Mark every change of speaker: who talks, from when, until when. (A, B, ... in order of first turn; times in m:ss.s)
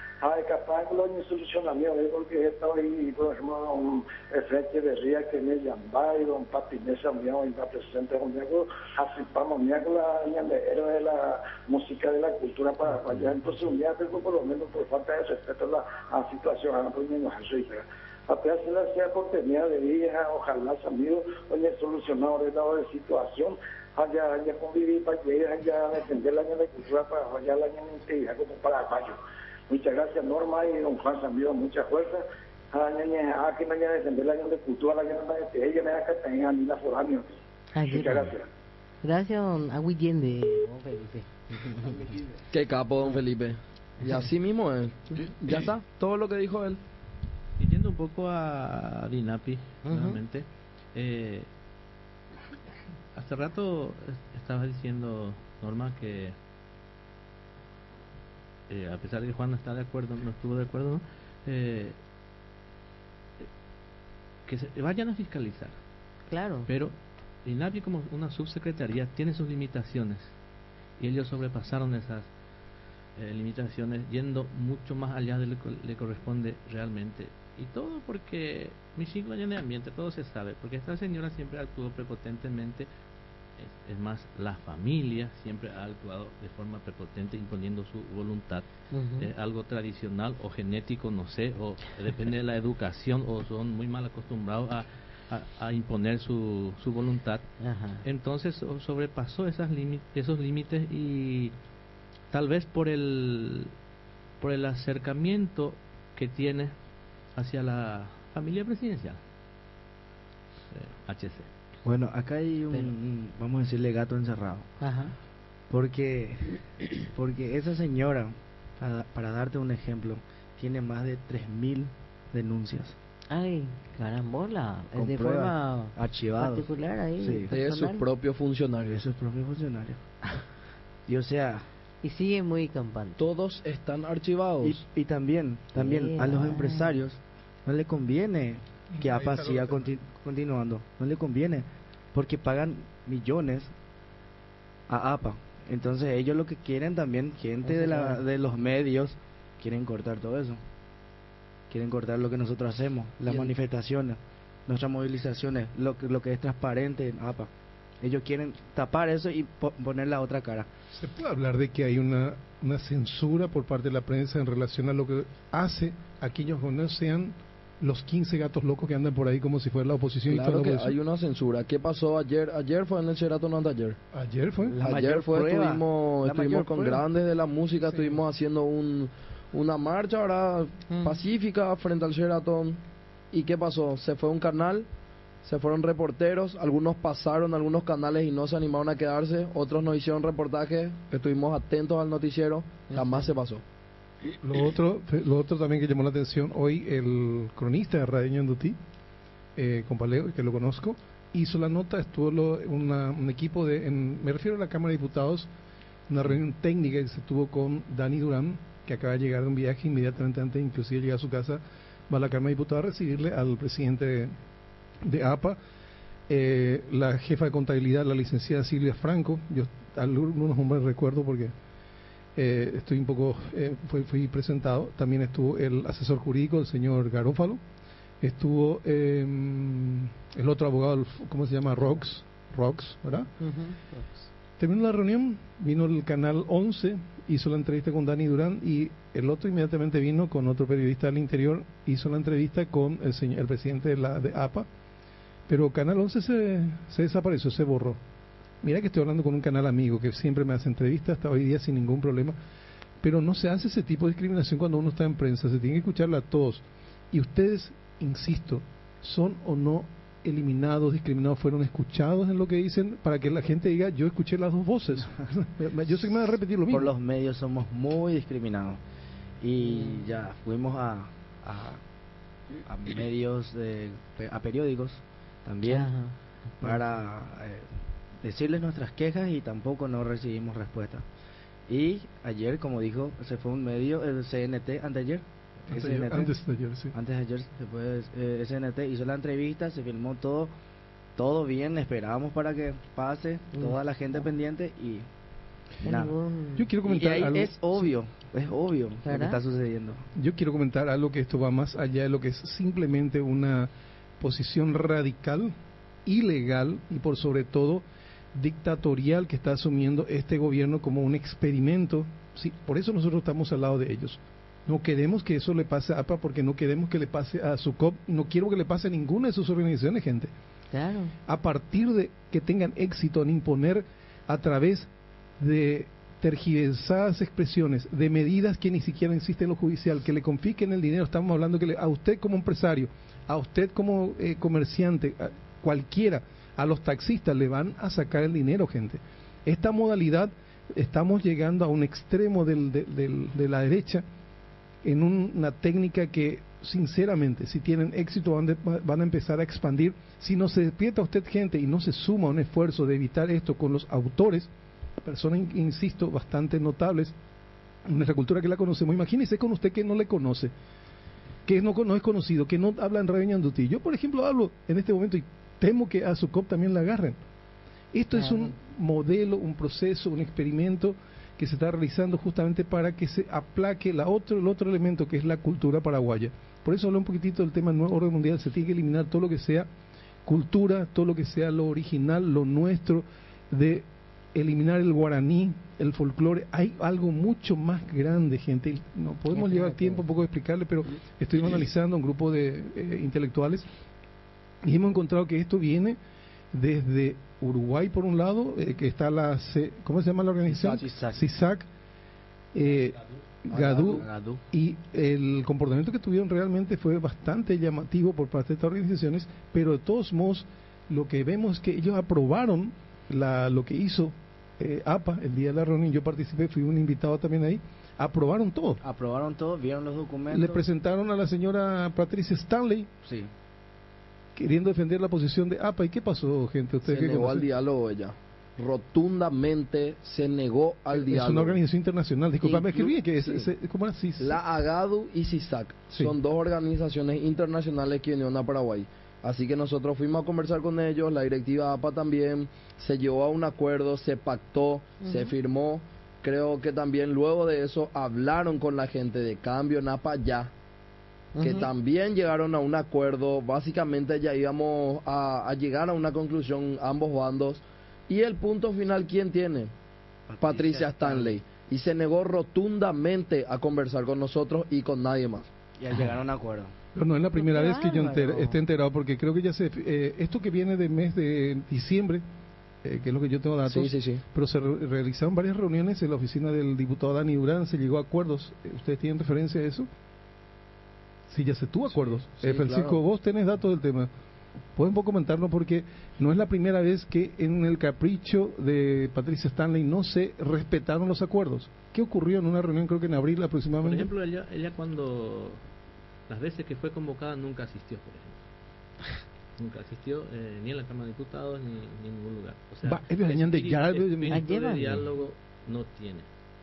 0:00.2-0:29.2 A
0:29.7-0:38.4 A
0:37.8-0:38.3 B
0:39.0-0:42.0 B
0:42.5-0:46.8 C
0:47.6-0:51.5 D
0:49.8-0:50.2 B
0:53.1-0:56.4 D
0:58.7-1:02.0 D
1:04.5-1:05.7 D
1:06.3-1:06.7 B
1:06.7-1:10.3 D
1:11.0-1:12.3 D
1:13.2-1:22.9 D
1:23.6-1:28.6 D
1:28.9-1:29.3 B
1:29.2-1:37.5 D
1:37.6-1:38.0 B
1:38.0-1:41.5 D
1:42.3-1:43.7 D
1:44.4-1:46.7 D
1:47.3-1:49.2 D
1:50.7-1:51.5 D
1:51.8-1:54.7 E
1:54.8-1:55.2 B
1:55.7-2:03.0 E
2:03.3-2:08.0 B
2:05.0-2:06.7 E
2:07.2-2:07.5 E
2:07.5-2:09.0 C
2:08.8-2:10.4 E
2:11.1-2:11.7 E
2:12.0-2:13.3 B
2:13.2-2:14.8 C
2:14.6-2:23.7 E
2:15.8-2:17.0 B
2:18.9-2:19.9 F
2:24.9-2:30.6 E
2:27.6-2:28.2 B
2:31.7-2:37.5 E
2:38.0-2:40.7 E
2:40.9-2:51.0 F
2:50.3-2:54.0 C
2:54.1-2:54.8 F
2:54.7-2:57.0 E
2:54.8-3:02.8 C
3:00.9-3:01.2 B
3:03.3-3:04.9 C
3:05.4-3:13.6 C
3:12.9-3:13.2 B
3:14.4-3:18.8 F
3:19.6-3:25.5 F
3:26.1-3:34.3 F
3:35.0-3:35.6 F
3:36.3-3:41.5 F
3:42.4-3:47.6 F
3:48.2-3:53.3 F
3:53.4-3:54.3 B
3:54.6-4:04.7 F
4:05.5-4:08.0 F
4:08.6-4:12.4 F
4:13.0-4:26.9 F
4:26.7-4:28.8 E
4:29.4-4:31.8 E
4:29.7-4:30.0 B
4:32.6-4:35.9 E
4:35.7-4:36.2 B
4:36.6-4:37.7 E
4:38.2-4:41.0 E
4:41.7-4:46.3 E
4:45.7-4:47.0 F
4:46.9-4:50.5 E
4:51.2-4:55.1 E
4:55.8-4:56.1 E
4:55.8-4:56.7 B
4:56.6-4:57.9 F
4:56.8-5:00.0 E
4:59.0-4:59.4 B
5:00.2-5:05.5 F
5:06.1-5:20.3 F
5:20.7-5:21.1 B
5:21.3-5:44.0 F
5:44.8-5:54.5 F
5:55.0-5:57.1 F
5:57.8-6:00.5 F
6:01.4-6:07.2 F
6:07.9-6:19.7 F
6:08.2-6:08.5 B
6:20.2-6:33.7 F
6:29.3-6:30.0 B
6:34.6-6:36.0 F
6:36.5-6:41.7 F
6:40.5-6:41.3 E
6:42.5-6:58.8 F
6:43.5-6:44.4 E
6:58.8-7:00.6 E
7:00.3-7:02.9 F
7:03.0-7:03.3 E
7:04.4-7:07.5 F
7:06.8-7:11.6 C
7:10.9-7:14.4 F
7:12.4-7:12.8 B
7:14.2-7:30.5 C
7:25.0-7:25.3 B
7:31.4-7:31.7 B
7:31.4-7:39.7 C
7:40.3-7:41.4 E
7:40.4-7:45.5 C
7:45.8-7:46.7 E
7:47.0-7:52.2 F
7:47.4-7:48.6 B
7:52.8-7:59.9 F
7:53.7-7:54.2 C
8:01.3-8:04.1 F
8:02.3-8:03.0 C
8:04.8-8:14.1 F
8:13.8-8:15.6 D
8:16.3-8:18.4 D
8:19.6-8:26.3 D
8:22.8-8:24.4 F
8:24.3-8:25.1 B